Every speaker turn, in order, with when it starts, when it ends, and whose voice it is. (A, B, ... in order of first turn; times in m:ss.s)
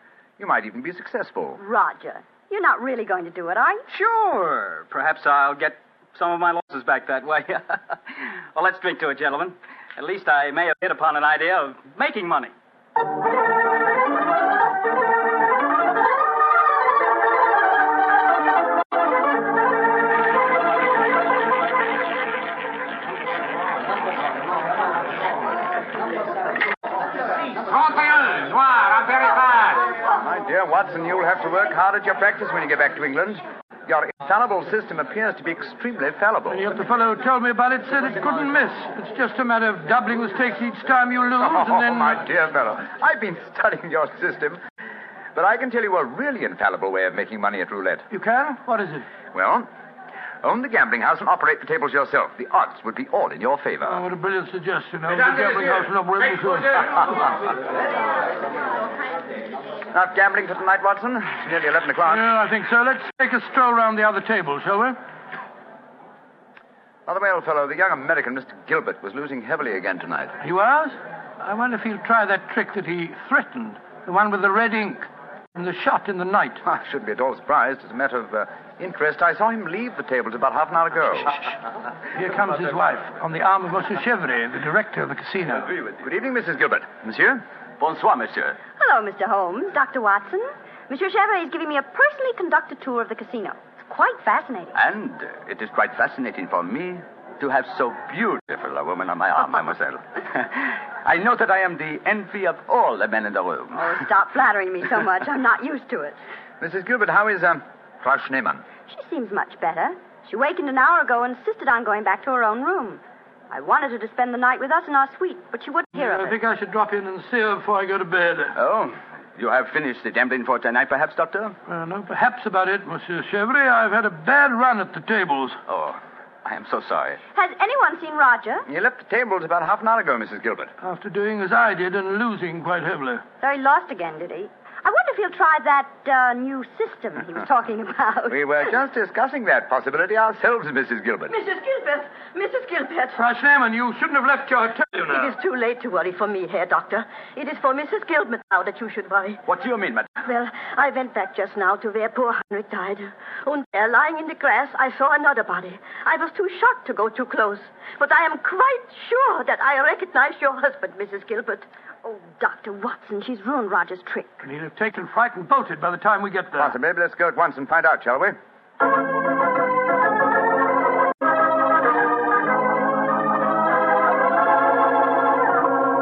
0:00.4-0:01.6 A
0:01.6-0:03.8 B
0:03.9-0:12.5 C
0:27.6-0:29.9 D
0:30.1-0:36.6 A
0:36.5-0:42.2 E
0:41.4-0:44.6 A
0:45.3-0:48.1 A
0:48.1-0:49.1 E
0:49.3-0:49.7 A
0:50.4-0:54.0 A
0:53.8-0:57.3 E
0:55.1-0:57.0 D
0:59.9-1:02.3 A
1:02.0-1:05.0 E
1:07.0-1:10.4 A
1:10.4-1:16.6 E
1:16.6-1:21.4 A
1:22.1-1:25.7 E
1:26.0-1:27.4 A
1:27.8-1:28.6 F
1:28.8-1:34.8 B
1:34.7-1:43.9 F
1:43.7-1:46.2 B
1:46.6-1:48.6 A
1:48.8-1:56.4 B
1:56.0-1:58.5 E
1:58.5-2:01.6 F
2:01.7-2:05.6 E
2:05.7-2:07.2 F
2:07.3-2:08.6 B
2:08.7-2:10.7 A
2:10.8-2:13.2 E
2:13.4-2:18.5 B
2:18.3-2:21.4 A
2:21.3-2:23.2 G
2:23.1-2:25.3 E
2:25.1-2:29.4 G
2:29.5-2:30.1 F
2:30.2-2:41.7 G
2:42.0-2:44.4 B
2:44.4-2:46.7 E
2:46.6-2:48.4 A